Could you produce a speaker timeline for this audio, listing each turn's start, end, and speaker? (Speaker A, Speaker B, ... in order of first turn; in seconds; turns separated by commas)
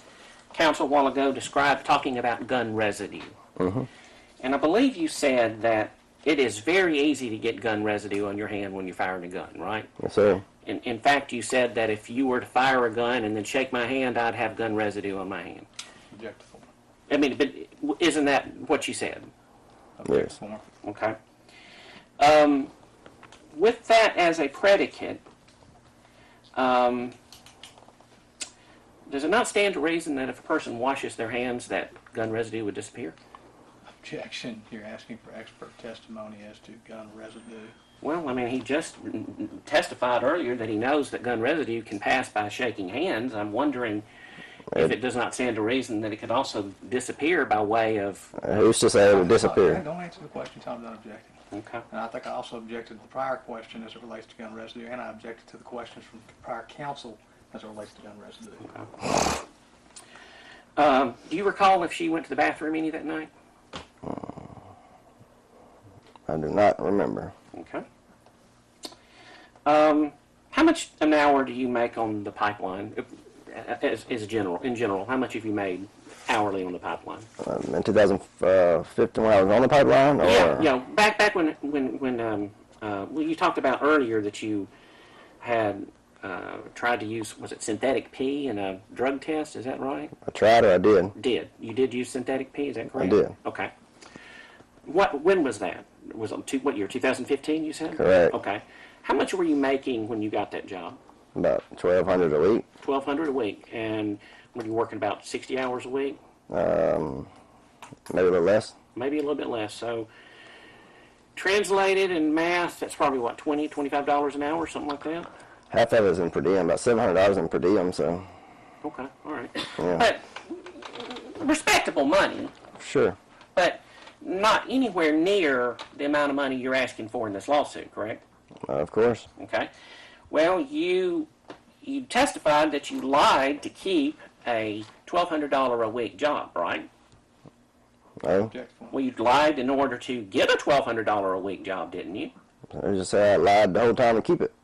Speaker A: 0.5-3.4, Speaker B: 3.6-3.9, Speaker A: 4.4-9.9, Speaker B: 10.0-10.4, Speaker A: 10.6-15.7, Speaker C: 16.1-16.7, Speaker A: 17.1-19.3, Speaker C: 20.0-20.7, Speaker B: 20.1-20.4, Speaker A: 20.8-21.2, Speaker A: 22.2-22.7, Speaker A: 23.5-25.2, Speaker A: 26.6-27.1, Speaker A: 29.1-33.2, Speaker C: 33.9-37.8, Speaker A: 38.0-44.1, Speaker B: 44.7-45.0, Speaker A: 44.8-48.3, Speaker B: 48.4-49.8, Speaker C: 49.1-51.4, Speaker A: 51.5-51.8, Speaker C: 51.9-58.8, Speaker A: 60.8-63.3, Speaker B: 64.0-64.5, Speaker B: 66.3-67.3, Speaker A: 67.5-67.9, Speaker A: 69.7-77.3, Speaker B: 77.4-80.7, Speaker A: 80.2-84.7, Speaker A: 85.4-90.1, Speaker B: 90.2-91.1, Speaker A: 91.2-93.7, Speaker B: 93.0-93.3, Speaker A: 94.8-101.0, Speaker B: 98.0-98.4, Speaker B: 101.3-102.7, Speaker A: 102.8-106.2, Speaker B: 106.5-107.3, Speaker B: 108.1-108.8, Speaker A: 109.0-110.1, Speaker A: 111.3-115.3, Speaker B: 115.7-118.3, Speaker A: 118.8-122.5, Speaker B: 119.8-120.1, Speaker B: 122.8-123.2, Speaker A: 123.5-128.2, Speaker B: 128.7-129.3, Speaker A: 129.4-129.7, Speaker A: 130.3-131.3, Speaker A: 131.8-136.9, Speaker B: 138.2-138.5, Speaker C: 138.5-139.0, Speaker A: 138.9-142.3, Speaker B: 142.7-144.5